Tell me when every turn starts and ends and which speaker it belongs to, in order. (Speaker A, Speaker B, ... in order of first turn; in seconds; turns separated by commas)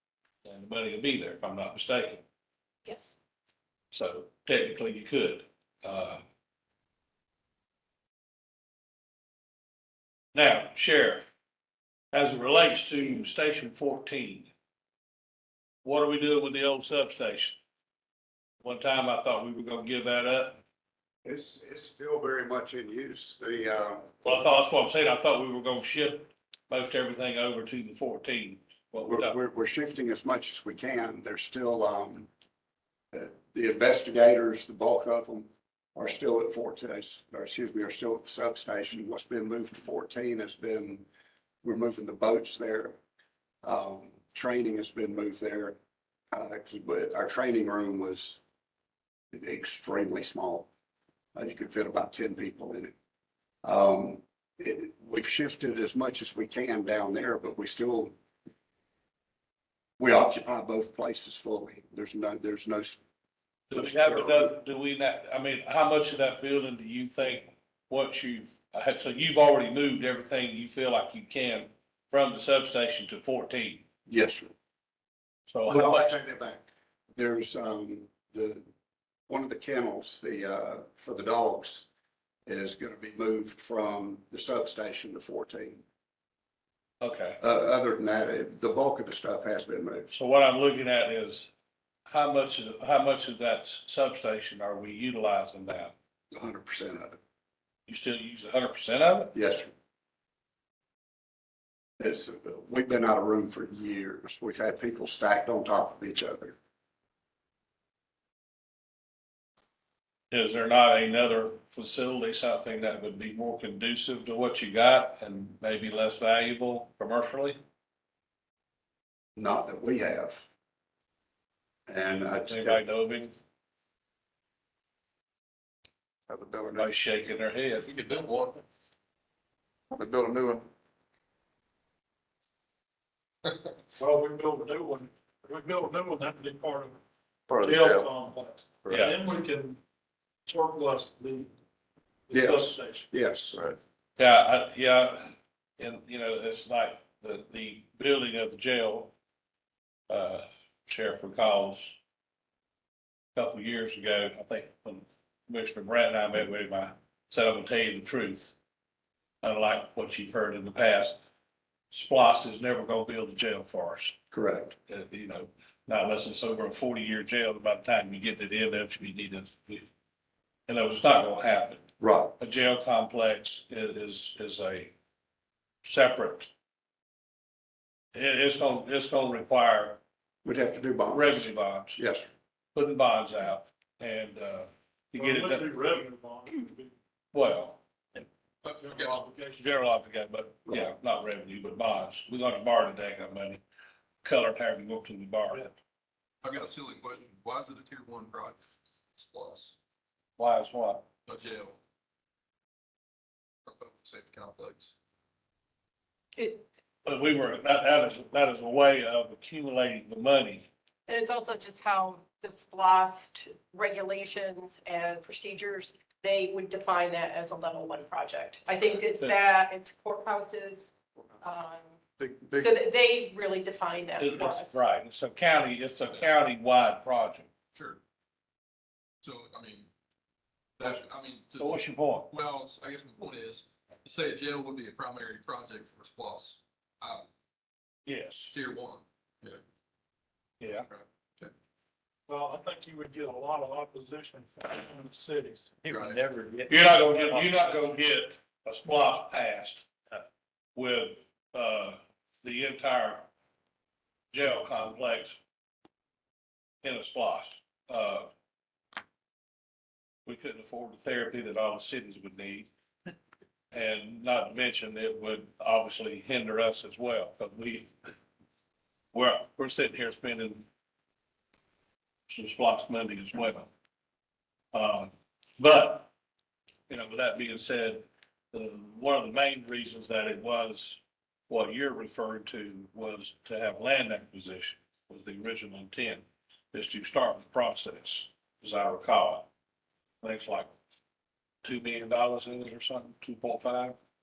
Speaker A: 0.4-2.2, Speaker B: 2.9-3.1, Speaker A: 3.9-6.2, Speaker A: 10.3-11.2, Speaker A: 12.1-14.5, Speaker A: 15.8-17.6, Speaker A: 18.6-20.6, Speaker C: 21.2-24.2, Speaker A: 24.2-29.4, Speaker C: 29.1-32.3, Speaker C: 33.1-41.0, Speaker C: 41.6-43.0, Speaker C: 43.6-45.8, Speaker C: 46.3-48.4, Speaker C: 49.3-50.7, Speaker C: 51.3-52.9, Speaker C: 53.6-58.1, Speaker C: 60.0-63.0, Speaker C: 63.7-64.5, Speaker A: 63.7-73.8, Speaker C: 74.1-74.5, Speaker A: 75.5-76.1, Speaker C: 75.7-78.6, Speaker C: 79.3-81.9, Speaker C: 82.5-85.8, Speaker A: 87.0-87.4, Speaker C: 87.4-90.1, Speaker A: 90.1-91.5, Speaker A: 92.1-95.9, Speaker C: 96.3-97.2, Speaker A: 97.9-99.3, Speaker C: 99.3-99.7, Speaker C: 102.0-106.5, Speaker A: 110.3-117.6, Speaker C: 119.3-120.5, Speaker C: 121.9-122.8, Speaker A: 122.5-123.4, Speaker D: 126.3-126.9, Speaker A: 126.8-127.9, Speaker E: 127.8-128.6, Speaker D: 129.9-130.7, Speaker F: 133.9-136.9, Speaker D: 137.5-138.1, Speaker F: 137.6-139.8, Speaker A: 138.9-139.2, Speaker F: 140.5-141.5, Speaker F: 142.3-143.0, Speaker C: 142.3-143.6, Speaker D: 143.5-143.8, Speaker A: 144.2-149.1, Speaker A: 150.1-152.0, Speaker A: 153.3-158.5, Speaker A: 159.4-161.2, Speaker A: 161.9-164.2, Speaker C: 164.3-164.7, Speaker A: 164.9-169.9, Speaker A: 170.7-171.8, Speaker C: 172.0-172.3, Speaker A: 172.4-174.9, Speaker A: 175.8-176.5, Speaker A: 178.1-180.0, Speaker C: 180.4-182.3, Speaker A: 181.1-182.0, Speaker A: 182.7-185.7, Speaker F: 185.1-186.9, Speaker A: 187.3-187.8, Speaker E: 188.6-189.2, Speaker F: 188.7-189.7, Speaker A: 189.6-193.6, Speaker A: 194.2-195.7, Speaker E: 196.4-198.6, Speaker E: 199.1-199.7, Speaker A: 200.4-201.0, Speaker E: 201.2-201.8, Speaker E: 203.7-204.9, Speaker B: 206.3-206.7, Speaker A: 207.0-210.7, Speaker B: 211.1-221.9, Speaker D: 222.2-222.7, Speaker B: 222.6-224.8, Speaker A: 224.2-227.5, Speaker E: 227.7-228.0, Speaker E: 229.2-229.9, Speaker E: 230.8-237.3, Speaker A: 231.6-232.3, Speaker A: 238.1-238.5, Speaker E: 238.5-239.6, Speaker A: 240.6-240.9, Speaker E: 240.8-241.5, Speaker F: 242.3-247.6, Speaker E: 245.9-246.2, Speaker A: 246.7-249.9, Speaker A: 250.7-253.3, Speaker A: 254.3-255.4, Speaker A: 256.8-258.3, Speaker A: 260.2-262.7, Speaker A: 263.7-267.9, Speaker A: 269.1-270.7, Speaker A: 272.3-273.7, Speaker A: 274.7-276.1, Speaker A: 276.9-289.5, Speaker A: 290.2-290.7, Speaker A: 291.6-293.9